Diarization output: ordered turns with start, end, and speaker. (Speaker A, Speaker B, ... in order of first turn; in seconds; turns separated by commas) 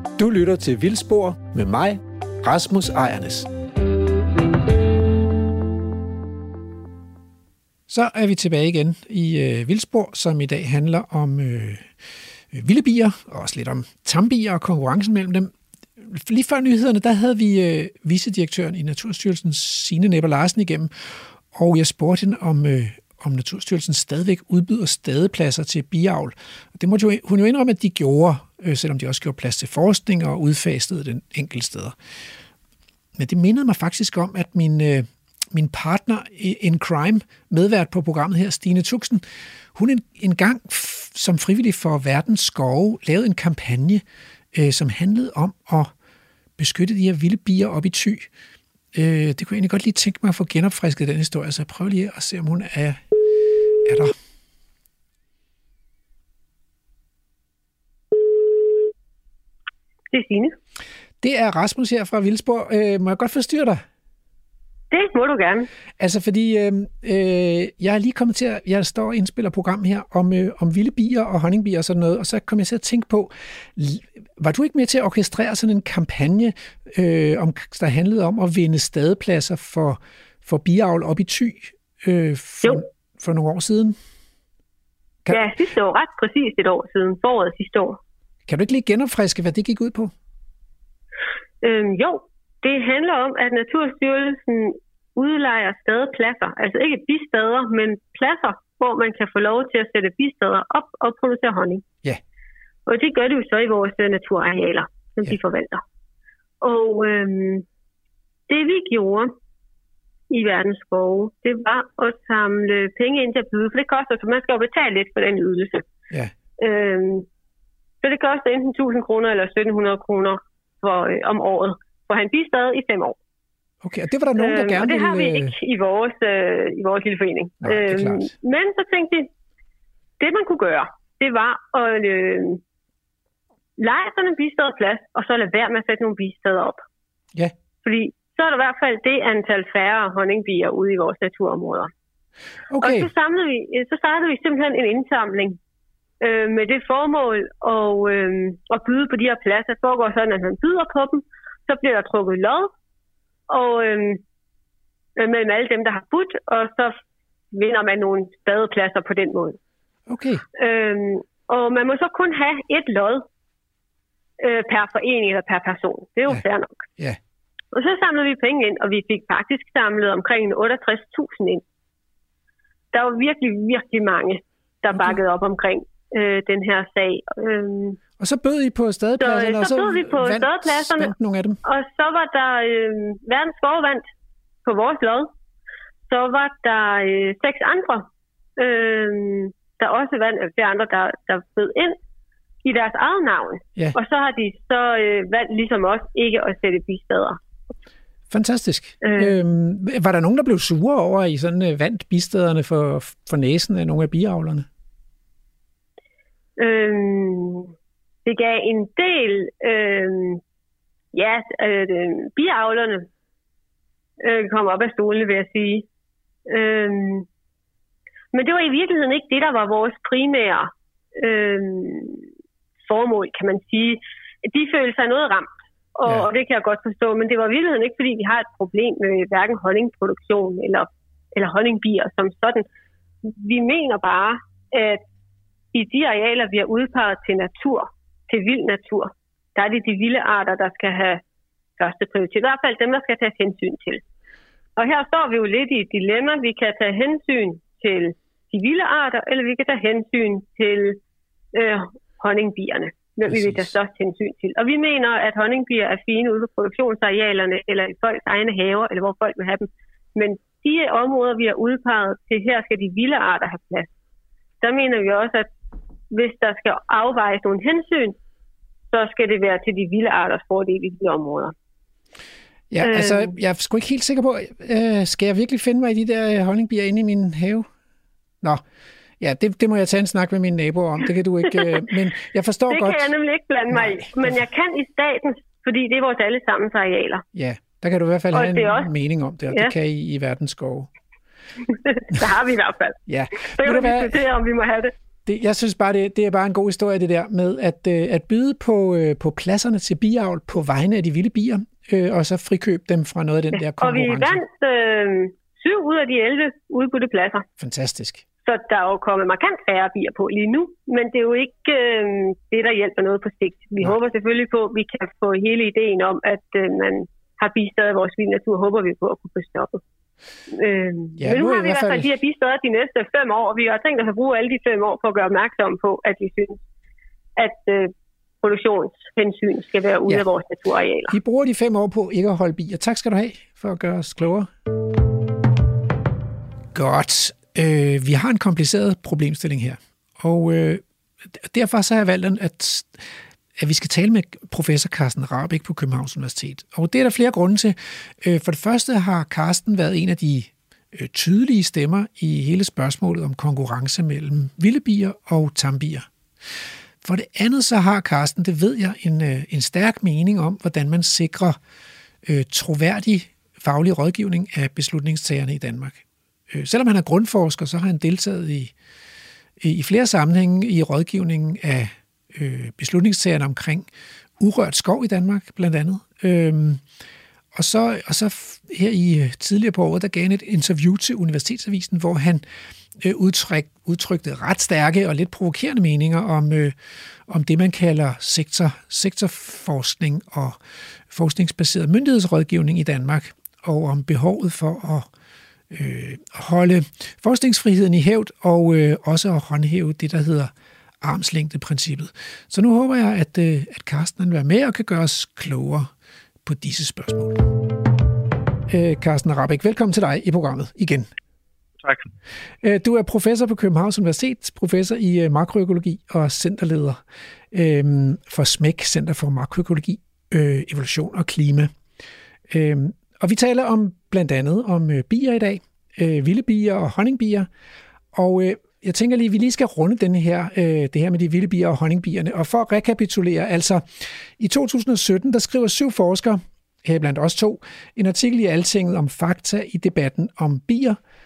Speaker A: 0.2-3.5, Speaker A: 7.9-11.9, Speaker A: 12.5-31.9, Speaker A: 33.2-45.9, Speaker A: 46.6-48.3, Speaker A: 48.9-53.0, Speaker A: 53.8-54.1, Speaker B: 60.1-60.5, Speaker A: 61.2-63.8, Speaker B: 64.9-65.7, Speaker A: 66.0-84.0, Speaker B: 85.3-88.0, Speaker A: 88.5-90.1, Speaker B: 91.6-101.8, Speaker B: 102.9-105.8, Speaker B: 106.6-107.6, Speaker B: 108.5-109.3, Speaker B: 110.3-115.8, Speaker B: 116.6-117.3, Speaker B: 118.0-123.2, Speaker A: 123.8-125.5, Speaker B: 124.4-129.3, Speaker A: 127.6-128.3, Speaker B: 130.2-132.6, Speaker B: 133.8-136.8, Speaker B: 137.8-141.9, Speaker A: 142.7-143.1, Speaker B: 142.8-145.6, Speaker B: 146.2-152.7, Speaker B: 153.5-154.2, Speaker B: 155.2-157.0, Speaker B: 157.5-159.6, Speaker A: 160.1-160.4, Speaker B: 160.6-163.2, Speaker B: 164.4-166.8, Speaker B: 167.7-171.6, Speaker B: 172.9-178.0, Speaker A: 178.2-181.6, Speaker B: 179.2-184.0, Speaker B: 184.6-185.3, Speaker B: 186.1-192.0, Speaker B: 192.6-197.4, Speaker A: 198.3-204.7, Speaker B: 199.0-199.3, Speaker B: 206.6-207.7, Speaker B: 208.2-210.4, Speaker B: 211.1-213.1, Speaker B: 214.2-215.8, Speaker B: 216.5-217.3, Speaker B: 218.3-222.2, Speaker B: 222.8-232.7, Speaker B: 233.2-235.0, Speaker B: 235.7-241.2, Speaker B: 241.8-244.0, Speaker B: 244.8-251.0, Speaker B: 251.5-263.9, Speaker A: 253.3-253.7, Speaker B: 264.6-265.5, Speaker B: 266.1-268.2, Speaker B: 268.9-271.5, Speaker A: 272.7-277.7, Speaker B: 272.8-273.3, Speaker A: 279.2-283.1, Speaker B: 282.7-287.2, Speaker A: 287.3-290.9, Speaker B: 288.3-288.9, Speaker B: 291.7-294.9, Speaker A: 293.1-294.2, Speaker A: 295.2-304.4, Speaker B: 303.6-307.4, Speaker A: 307.6-308.2, Speaker B: 308.4-319.8, Speaker B: 320.5-326.6, Speaker A: 321.2-322.1, Speaker B: 327.4-331.1, Speaker A: 331.1-334.5, Speaker A: 336.7-343.0, Speaker A: 343.6-356.1, Speaker A: 357.0-361.6, Speaker A: 362.2-368.7, Speaker A: 369.6-373.9, Speaker A: 374.4-376.8, Speaker A: 377.5-382.4, Speaker A: 383.0-386.7, Speaker A: 387.3-390.6, Speaker A: 391.1-395.1, Speaker A: 395.7-405.9, Speaker A: 406.4-407.5, Speaker A: 408.7-411.1, Speaker A: 412.6-417.0, Speaker A: 417.5-421.7, Speaker A: 422.5-427.5, Speaker A: 428.1-441.0